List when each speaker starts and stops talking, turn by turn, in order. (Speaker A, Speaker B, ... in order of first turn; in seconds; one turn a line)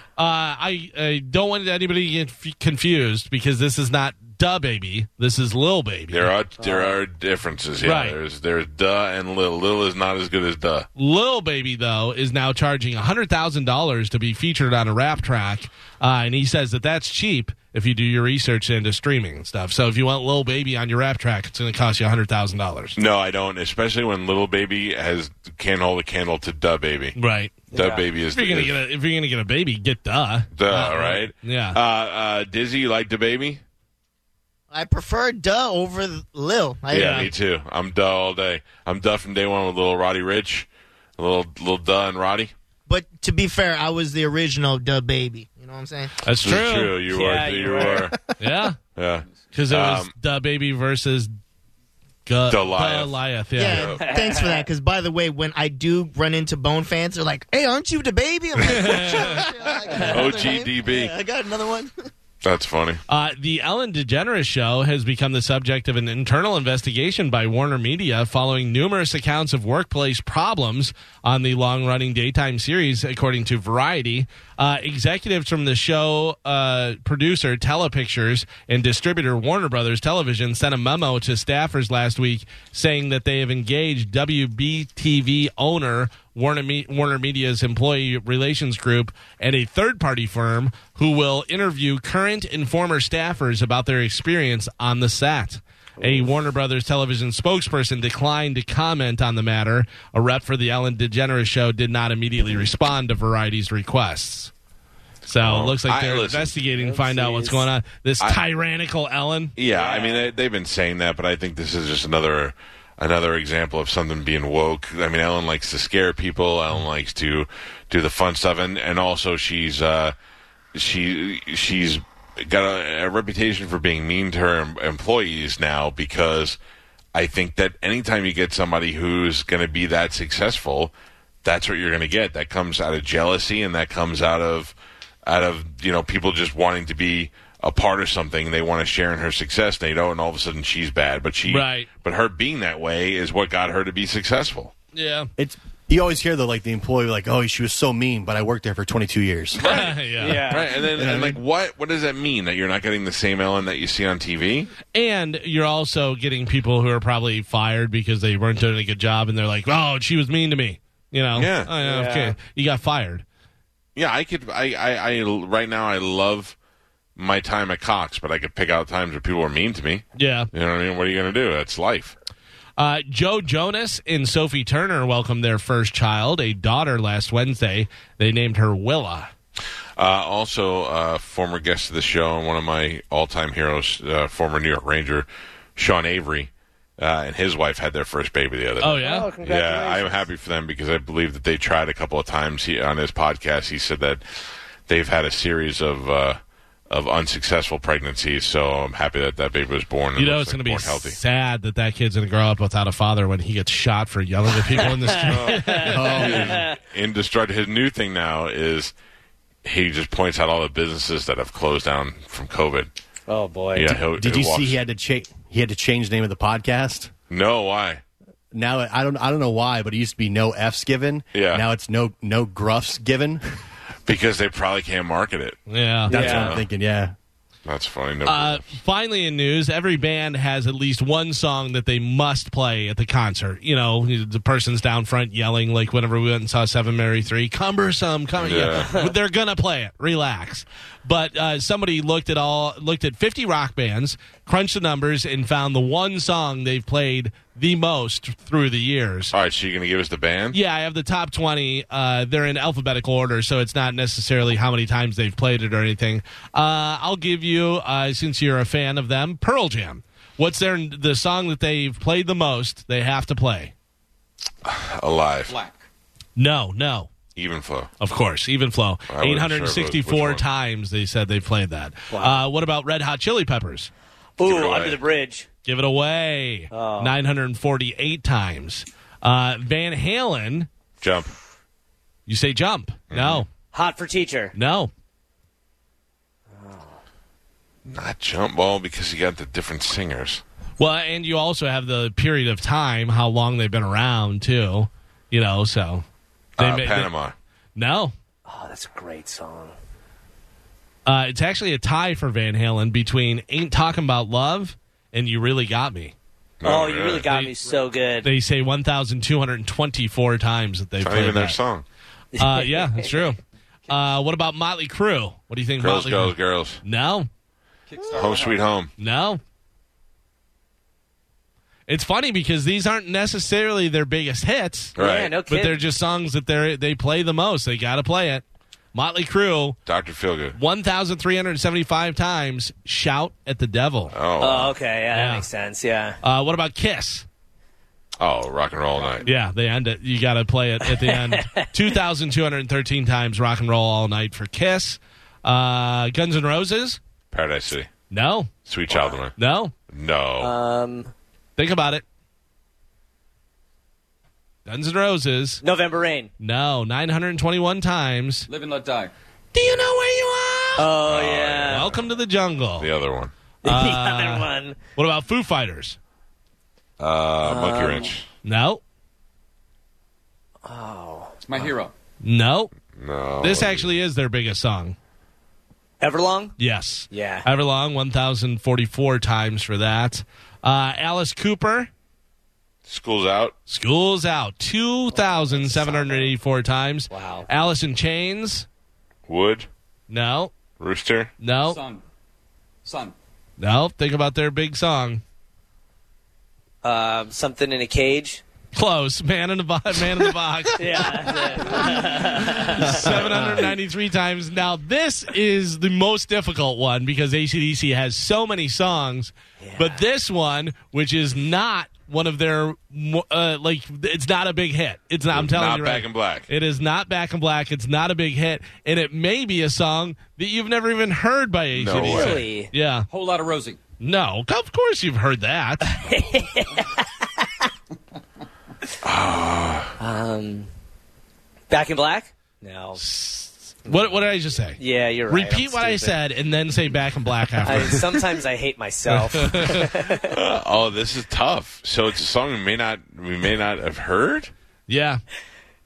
Speaker A: 0.2-6.3
Speaker B: 6.1-10.9
Speaker C: 6.6-6.9
Speaker A: 7.8-8.2
Speaker A: 11.0-22.9
Speaker B: 22.9-27.2
Speaker A: 27.2-27.6
Speaker C: 27.7-28.1
Speaker B: 27.7-28.8
Speaker A: 28.3-31.8
Speaker B: 30.6-33.6
Speaker D: 34.7-37.3
Speaker A: 36.9-37.3
Speaker B: 36.9-42.5
Speaker D: 42.9-46.1
Speaker A: 46.2-47.0
Speaker B: 46.3-48.2
Speaker C: 47.1-48.1
Speaker A: 48.4-48.8
Speaker B: 49.0-50.1
Speaker A: 49.5-51.3
Speaker A: 52.2-53.9
Speaker B: 52.5-53.1
Speaker D: 53.5-61.9
Speaker B: 53.7-54.0
Speaker C: 53.9-54.6
Speaker A: 58.6-59.5
Speaker B: 58.8-59.0
Speaker B: 60.0-61.1
Speaker B: 62.4-63.0
Speaker A: 63.1-104.5
Speaker C: 96.0-96.3
Speaker A: 105.2-109.5
Speaker B: 105.4-106.5
Speaker C: 106.8-107.6
Speaker B: 109.6-120.1
Speaker C: 109.7-110.3
Speaker B: 120.7-126.6
Speaker B: 127.1-130.9
Speaker B: 131.4-144.7
Speaker A: 141.5-141.9
Speaker A: 144.9-145.3
Speaker E: 145.4-149.6
Speaker B: 149.6-154.7
Speaker A: 149.6-150.4
Speaker C: 150.2-150.8
Speaker E: 150.9-151.4
Speaker A: 154.9-163.2
Speaker B: 161.3-161.7
Speaker C: 161.8-162.3
Speaker B: 163.9-166.5
Speaker B: 167.2-172.2
Speaker A: 170.2-170.5
Speaker A: 172.8-179.3
Speaker B: 180.0-194.2
Speaker A: 188.8-189.3
Speaker C: 188.9-190.2
Speaker B: 194.9-196.4
Speaker B: 196.9-201.2
Speaker A: 200.2-206.3
Speaker C: 204.7-206.8
Speaker B: 205.2-208.9
Speaker E: 205.8-206.6
Speaker B: 209.6-212.9
Speaker C: 213.3-213.9
Speaker B: 213.7-214.8
Speaker E: 213.8-217.1
Speaker B: 217.3-218.0
Speaker E: 218.5-223.4
Speaker B: 221.3-221.6
Speaker B: 224.1-226.6
Speaker A: 225.7-226.5
Speaker E: 226.1-227.1
Speaker C: 226.1-226.5
Speaker B: 227.6-228.7
Speaker A: 228.2-249.3
Speaker B: 238.4-238.9
Speaker C: 238.8-239.1
Speaker B: 249.3-250.6
Speaker A: 250.5-263.7
Speaker B: 264.6-265.5
Speaker F: 265.5-265.8
Speaker A: 266.4-267.1
Speaker B: 267.4-267.9
Speaker A: 268.0-273.9
Speaker B: 269.1-270.4
Speaker C: 272.1-272.4
Speaker C: 274.4-275.5
Speaker B: 274.4-275.0
Speaker A: 275.6-280.7
Speaker C: 276.7-277.1
Speaker B: 281.0-281.3
Speaker A: 282.3-283.5
Speaker B: 283.1-283.4
Speaker C: 283.7-284.5
Speaker A: 284.5-284.9
Speaker C: 286.5-287.0
Speaker B: 287.9-290.4
Speaker A: 290.8-296.0
Speaker B: 296.6-297.3
Speaker A: 296.6-297.1
Speaker A: 297.8-298.1
Speaker C: 298.4-299.7
Speaker A: 301.1-306.1
Speaker B: 306.6-307.3
Speaker C: 306.6-308.3
Speaker A: 308.2-311.6
Speaker B: 311.0-311.8
Speaker C: 312.4-313.2
Speaker A: 312.4-317.3
Speaker B: 315.8-316.8
Speaker F: 317.9-318.6
Speaker B: 318.1-318.9
Speaker A: 319.0-319.4
Speaker A: 321.9-324.9
Speaker B: 324.9-325.3
Speaker C: 325.0-325.8
Speaker A: 325.5-329.8
Speaker B: 329.9-330.6
Speaker A: 330.6-334.1
Speaker B: 334.1-334.8
Speaker C: 334.4-336.2
Speaker A: 335.1-335.4
Speaker A: 336.2-337.2
Speaker B: 338.2-339.2
Speaker C: 338.9-339.2
Speaker A: 339.2-347.0
Speaker C: 340.9-341.7
Speaker B: 347.3-347.9
Speaker A: 348.1-348.5
Speaker B: 348.6-349.3
Speaker C: 348.9-349.2
Speaker A: 349.4-349.7
Speaker B: 349.9-350.5
Speaker C: 350.4-351.1
Speaker A: 351.6-352.0
Speaker A: 354.7-355.6
Speaker C: 355.6-356.3
Speaker A: 356.4-358.5
Speaker F: 358.5-359.1
Speaker A: 359.5-360.9
Speaker C: 360.8-361.9
Speaker B: 361.0-361.9
Speaker A: 361.7-362.9
Speaker B: 362.8-363.3
Speaker C: 363.6-364.8
Speaker A: 363.6-366.0
Speaker B: 367.0-368.2
Speaker C: 367.4-368.1
Speaker A: 368.4-368.8
Speaker C: 370.6-371.7
Speaker F: 371.4-371.9
Speaker A: 372.2-372.7
Speaker B: 372.9-373.9
Speaker A: 373.4-374.9
Speaker C: 376.0-376.5
Speaker A: 376.6-381.9
Speaker C: 377.1-377.5
Speaker B: 382.9-383.5
Speaker A: 383.7-388.7
Speaker C: 385.1-386.3
Speaker C: 387.1-387.5
Speaker B: 389.3-389.7
Speaker A: 390.1-390.5
Speaker B: 390.8-391.3
Speaker A: 391.4-391.8
Speaker F: 391.6-392.0
Speaker F: 392.8-393.1
Speaker A: 393.6-395.2
Speaker C: 396.8-398.4
Speaker A: 398.7-423.1
Speaker C: 400.8-403.3
Speaker E: 402.8-403.7
Speaker C: 409.6-410.0
Speaker B: 415.3-416.5
Speaker B: 421.7-422.5
Speaker C: 422.0-422.7
Speaker F: 423.1-423.8
Speaker A: 424.0-425.9
Speaker C: 425.8-427.4
Speaker B: 429.0-429.9
Speaker C: 430.0-430.7
Speaker C: 431.7-433.0
Speaker A: 432.9-438.0
Speaker C: 434.8-436.1
Speaker C: 437.6-440.3
Speaker A: 439.1-439.9
Speaker B: 440.2-444.5
Speaker A: 444.9-445.2